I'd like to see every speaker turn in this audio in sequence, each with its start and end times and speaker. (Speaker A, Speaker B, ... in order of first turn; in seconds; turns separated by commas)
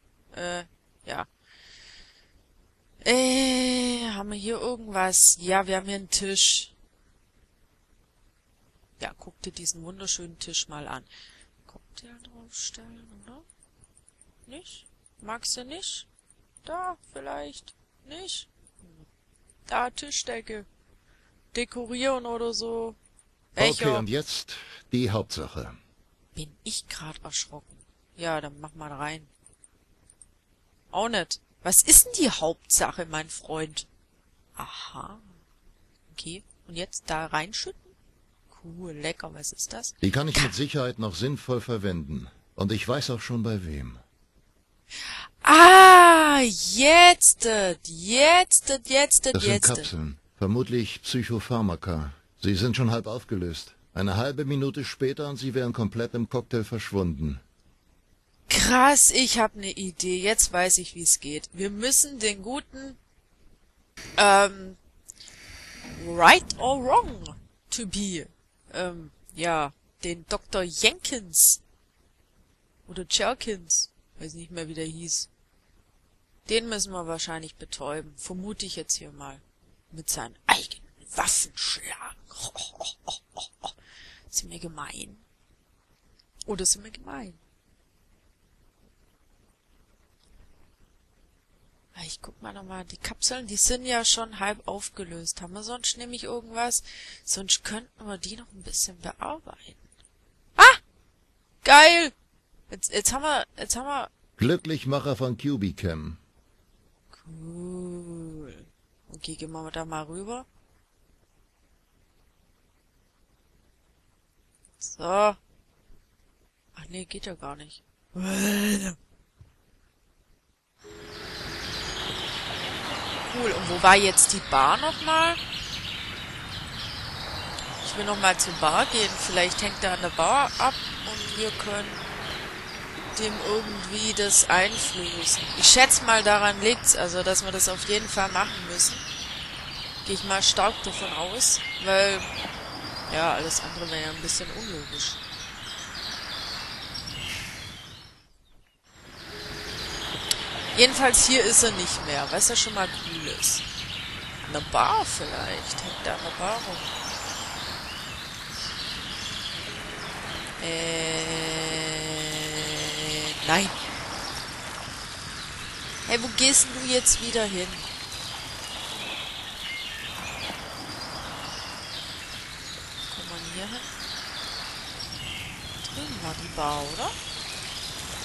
Speaker A: 0.3-1.3, Speaker A: 3.0-6.7, Speaker A: 9.0-11.1, Speaker A: 11.7-13.4, Speaker A: 14.5-16.1, Speaker A: 16.6-19.0, Speaker A: 19.7-20.7, Speaker A: 21.5-23.0, Speaker A: 23.5-24.1, Speaker B: 23.6-25.8, Speaker A: 26.3-29.3, Speaker A: 30.9-33.9, Speaker A: 34.6-35.3, Speaker A: 36.1-37.9, Speaker A: 38.5-40.5, Speaker B: 40.0-44.0, Speaker A: 45.1-49.9, Speaker B: 49.3-57.4, Speaker A: 58.5-63.0, Speaker A: 64.2-64.8, Speaker A: 66.0-71.6, Speaker A: 72.9-75.3, Speaker A: 76.5-83.7, Speaker A: 84.3-85.2, Speaker A: 86.5-87.4, Speaker A: 91.9-99.8, Speaker A: 101.6-102.1, Speaker A: 102.7-104.1, Speaker B: 104.4-106.2, Speaker A: 107.1-110.5, Speaker A: 114.8-115.4, Speaker A: 116.8-119.0, Speaker A: 123.2-125.4, Speaker A: 127.8-132.0, Speaker A: 133.1-139.0, Speaker A: 140.0-142.3, Speaker A: 143.1-145.2, Speaker A: 150.7-153.6, Speaker A: 154.4-156.9, Speaker A: 160.6-163.7, Speaker A: 166.1-167.9, Speaker A: 173.1-173.9, Speaker A: 175.8-177.1